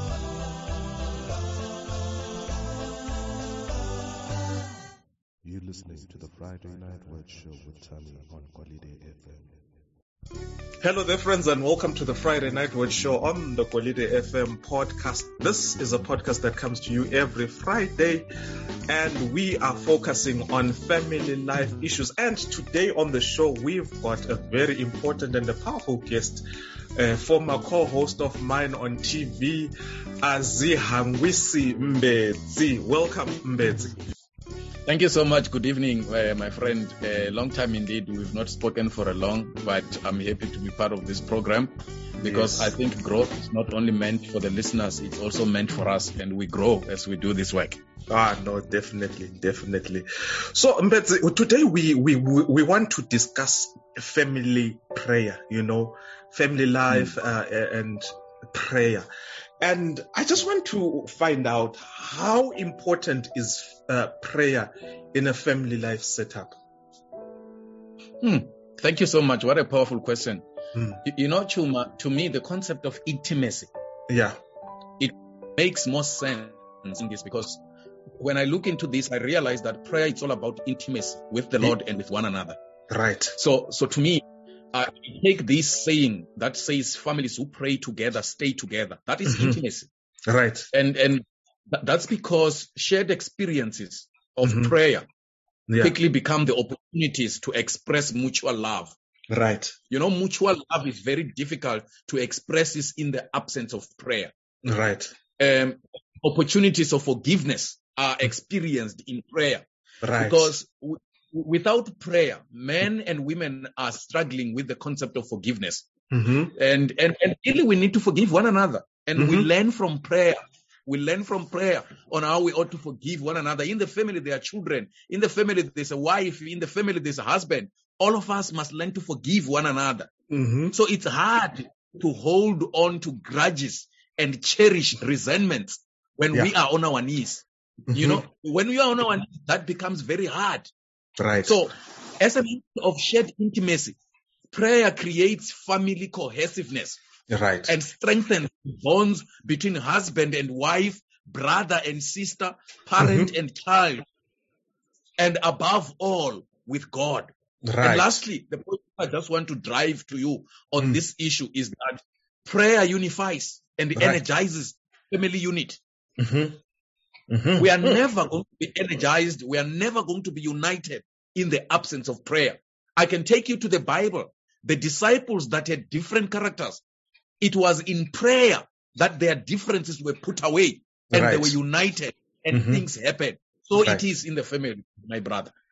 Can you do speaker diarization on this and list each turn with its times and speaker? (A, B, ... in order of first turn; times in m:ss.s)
0:05.4-0:09.7 A
0:10.8-0:18.3 B
0:18.9-0:26.4 B
0:27.0-0:34.0 B
0:34.9-0:47.8 C
0:42.2-0:42.7 B
0:48.1-0:59.1 B
0:59.6-1:06.5 B
1:08.2-1:10.4 C
1:10.7-1:11.0 B
1:11.0-1:13.7 C
1:14.1-1:14.4 B
1:15.0-1:17.6 C
1:18.2-1:22.6 C
1:22.9-1:23.4 B
1:23.4-1:29.9 C
1:29.2-1:29.6 B
1:30.3-1:30.7 B
1:30.7-1:35.1 C
1:34.4-1:34.7 B
1:35.7-1:35.9 B
1:35.8-1:39.0 C
1:39.3-1:39.7 B
1:39.9-1:44.3 C
1:44.6-1:45.1 B
1:45.4-1:49.6 C
1:50.0-1:50.5 B
1:50.2-1:55.9 C
1:56.1-1:56.5 B
1:56.5-2:10.1 C
1:59.2-1:59.5 B
2:10.3-2:10.7 B
2:10.7-2:20.7 C
2:17.9-2:18.2 B
2:21.2-2:21.6 B
2:21.4-2:24.0 C
2:24.5-2:27.0 C
2:27.3-2:27.7 B
2:27.7-2:34.0 C
2:33.0-2:33.3 B
2:35.2-2:45.8 C
2:37.6-2:38.2 B
2:46.2-2:46.6 B
2:47.3-2:48.0 B
2:47.6-2:56.8 C
2:57.4-3:05.5 C
3:01.1-3:01.6 B
3:02.5-3:02.8 B